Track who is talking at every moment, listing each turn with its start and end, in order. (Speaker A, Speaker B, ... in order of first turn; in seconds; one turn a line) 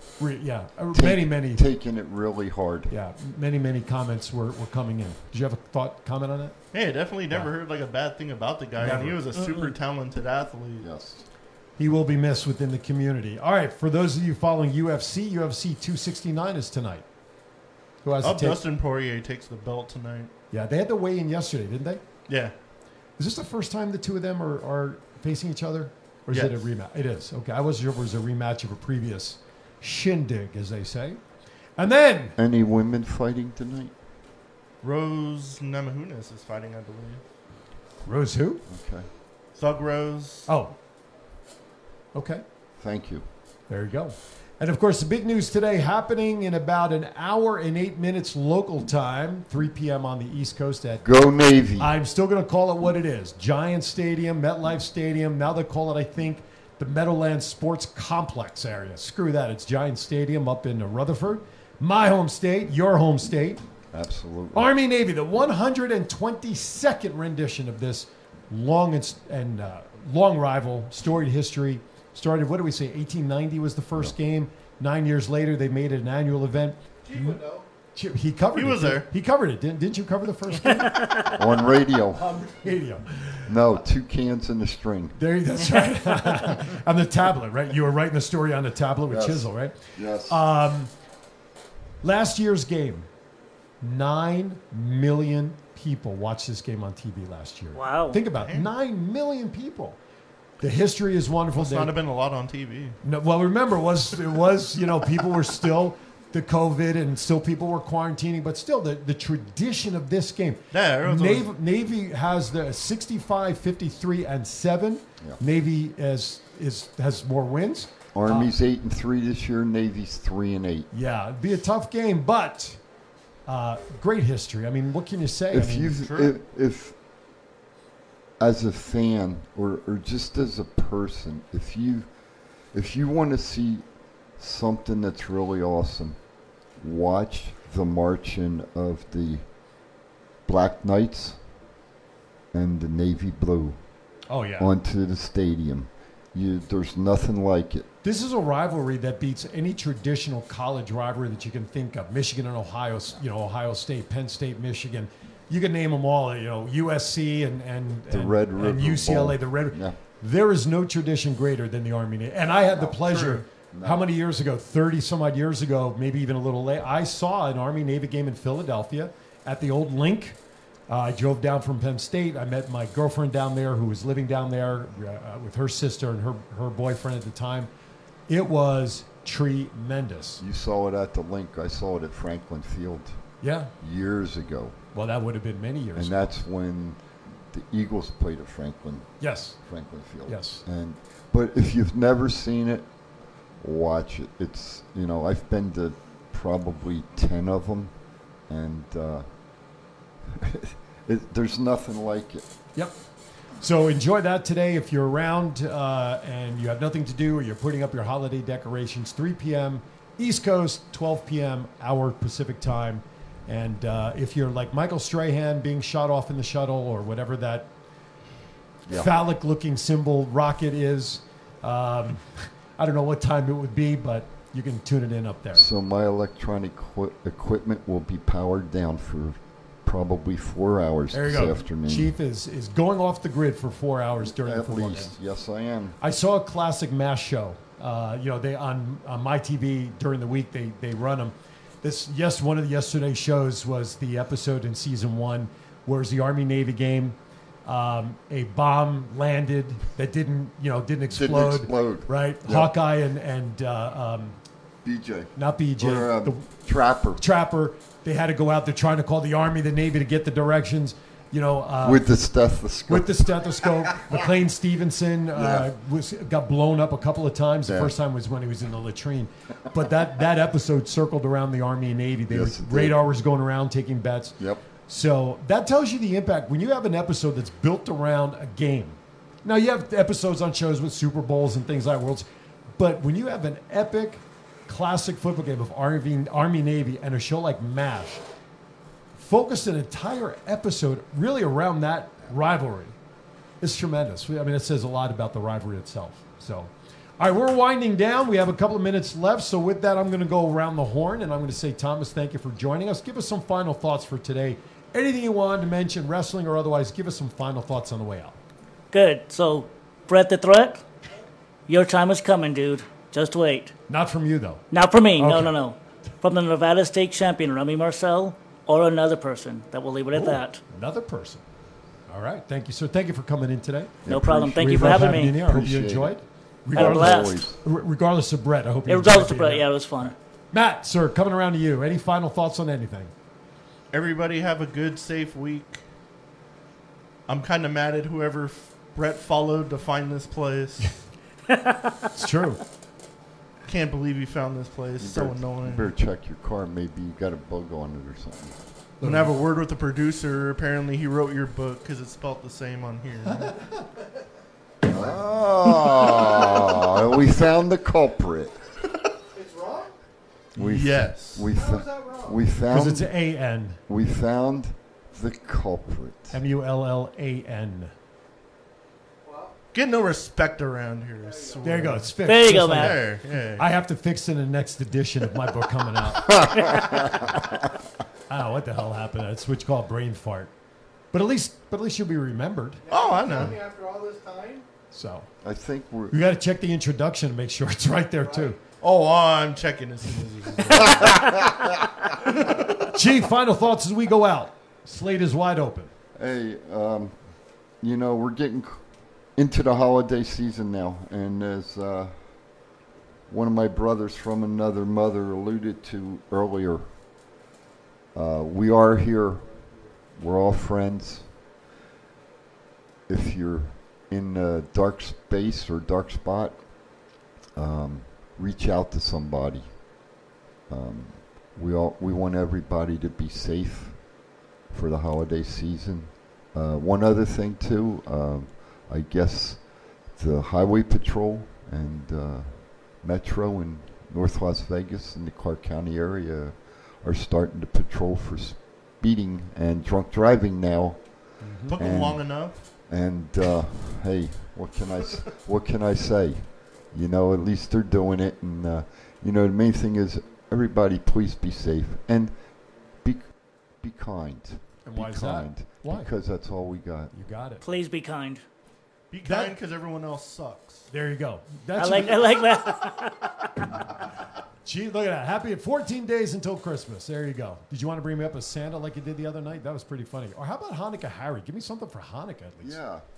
Speaker A: 0.2-1.6
Speaker B: 0.9-2.9
Speaker A: 2.9-6.5
Speaker C: 6.7-10.9
Speaker A: 8.8-9.7
Speaker B: 8.8-9.1
Speaker B: 10.8-11.2
Speaker A: 11.8-17.0
Speaker A: 18.0-18.6
Speaker C: 18.2-20.3
Speaker A: 20.5-22.0
Speaker C: 22.3-22.5
Speaker A: 23.2-31.2
Speaker C: 26.3-26.6
Speaker A: 31.8-32.4
Speaker B: 32.4-33.9
Speaker C: 34.8-37.2
Speaker A: 38.0-38.6
Speaker B: 38.7-39.1
Speaker C: 39.6-40.5
Speaker A: 40.5-40.7
Speaker A: 42.1-42.4
Speaker B: 42.8-43.2
Speaker A: 43.7-51.0
Speaker B: 51.0-51.9
Speaker A: 51.8-63.6
Speaker B: 63.9-64.7
Speaker A: 64.5-77.4
Speaker D: 77.0-77.7
Speaker A: 77.9-81.0
Speaker C: 78.5-79.1
Speaker E: 80.7-81.3
Speaker B: 81.3-82.2
Speaker A: 82.2-83.8
Speaker B: 83.5-85.2
Speaker A: 85.2-90.9
Speaker B: 89.1-90.4
Speaker A: 92.0-93.1
Speaker A: 93.8-100.0
Speaker E: 97.7-98.2
Speaker C: 98.4-98.7
Speaker A: 100.6-101.9
Speaker C: 101.5-103.0
Speaker A: 103.0-118.5
Speaker C: 110.7-111.5
Speaker B: 118.1-120.9
Speaker A: 120.9-122.8
Speaker A: 123.5-126.0
Speaker B: 125.5-126.9
Speaker C: 126.0-126.4
Speaker B: 128.4-132.1
Speaker B: 132.7-133.8
Speaker B: 134.4-136.2
Speaker B: 136.8-139.4
Speaker B: 140.4-141.4
Speaker B: 142.5-143.8
Speaker A: 144.3-144.7
Speaker B: 144.6-147.9
Speaker A: 148.0-170.4
Speaker B: 158.1-159.9
Speaker C: 162.9-163.4
Speaker B: 163.7-164.0
Speaker A: 170.9-177.7
Speaker A: 178.3-180.4
Speaker B: 180.4-183.2
Speaker A: 183.4-183.7
Speaker B: 183.8-184.8
Speaker A: 184.9-186.2
Speaker B: 185.9-192.9
Speaker A: 189.2-189.6
Speaker A: 190.2-190.6
Speaker B: 193.6-197.9
Speaker B: 198.5-199.2
Speaker B: 200.3-202.4
Speaker A: 203.6-217.7
Speaker B: 218.9-219.1
Speaker A: 218.9-225.7
Speaker B: 225.5-232.1
Speaker A: 231.1-235.1
Speaker B: 234.3-235.9
Speaker A: 236.0-254.4
Speaker B: 251.1-252.7
Speaker B: 254.8-257.2
Speaker A: 255.3-256.4
Speaker A: 257.2-262.0
Speaker B: 261.8-263.1
Speaker A: 262.9-274.4
Speaker B: 265.4-265.7
Speaker B: 267.7-267.9
Speaker B: 272.3-273.0
Speaker B: 274.4-274.6
Speaker A: 274.9-282.2
Speaker A: 282.8-288.2
Speaker A: 289.1-292.9
Speaker A: 293.6-308.4
Speaker E: 308.9-310.8
Speaker E: 311.7-313.7
Speaker A: 313.9-314.6
Speaker E: 314.7-320.6
Speaker A: 315.2-315.5
Speaker A: 320.1-321.4
Speaker A: 322.1-324.0
Speaker B: 324.0-326.2
Speaker E: 324.1-325.4
Speaker A: 324.5-333.1
Speaker E: 326.7-327.5
Speaker B: 326.7-327.6
Speaker E: 328.9-330.1
Speaker C: 333.9-335.8
Speaker C: 337.3-341.0
Speaker E: 341.5-341.9
Speaker A: 342.1-342.6
Speaker C: 343.7-345.9
Speaker B: 345.0-348.5
Speaker A: 349.0-349.3
Speaker C: 349.0-353.5
Speaker B: 354.8-358.5
Speaker D: 359.3-359.9
Speaker B: 360.5-363.1
Speaker C: 360.6-361.5
Speaker D: 361.5-362.4
Speaker A: 362.7-363.8
Speaker B: 363.9-366.3
Speaker A: 366.3-367.9
Speaker D: 369.2-369.6
Speaker C: 369.7-373.6
Speaker D: 371.2-372.0
Speaker A: 371.6-376.4
Speaker E: 372.2-373.0
Speaker E: 376.4-377.1
Speaker A: 378.3-380.5
Speaker A: 381.1-382.8
Speaker D: 382.9-384.6
Speaker C: 382.9-383.5
Speaker A: 384.9-385.3
Speaker B: 385.4-386.2
Speaker A: 386.1-388.6
Speaker D: 388.2-388.5
Speaker C: 388.8-391.3
Speaker B: 390.8-391.7
Speaker A: 392.8-395.9
Speaker B: 396.1-397.2
Speaker B: 397.8-398.8
Speaker B: 399.4-402.1
Speaker B: 403.3-406.9
Speaker B: 408.1-409.5
Speaker B: 410.1-411.3
Speaker B: 413.1-416.7
Speaker B: 417.6-419.8
Speaker B: 420.7-424.1
Speaker B: 424.7-452.4
Speaker A: 441.4-441.8
Speaker C: 441.7-442.6
Speaker B: 453.0-457.1
Speaker A: 454.8-456.1
Speaker A: 457.1-457.6
Speaker E: 457.6-458.4
Speaker C: 459.1-460.9
Speaker A: 459.2-459.5
Speaker A: 460.9-462.4
Speaker E: 461.8-463.3
Speaker A: 464.6-472.8
Speaker B: 472.6-473.0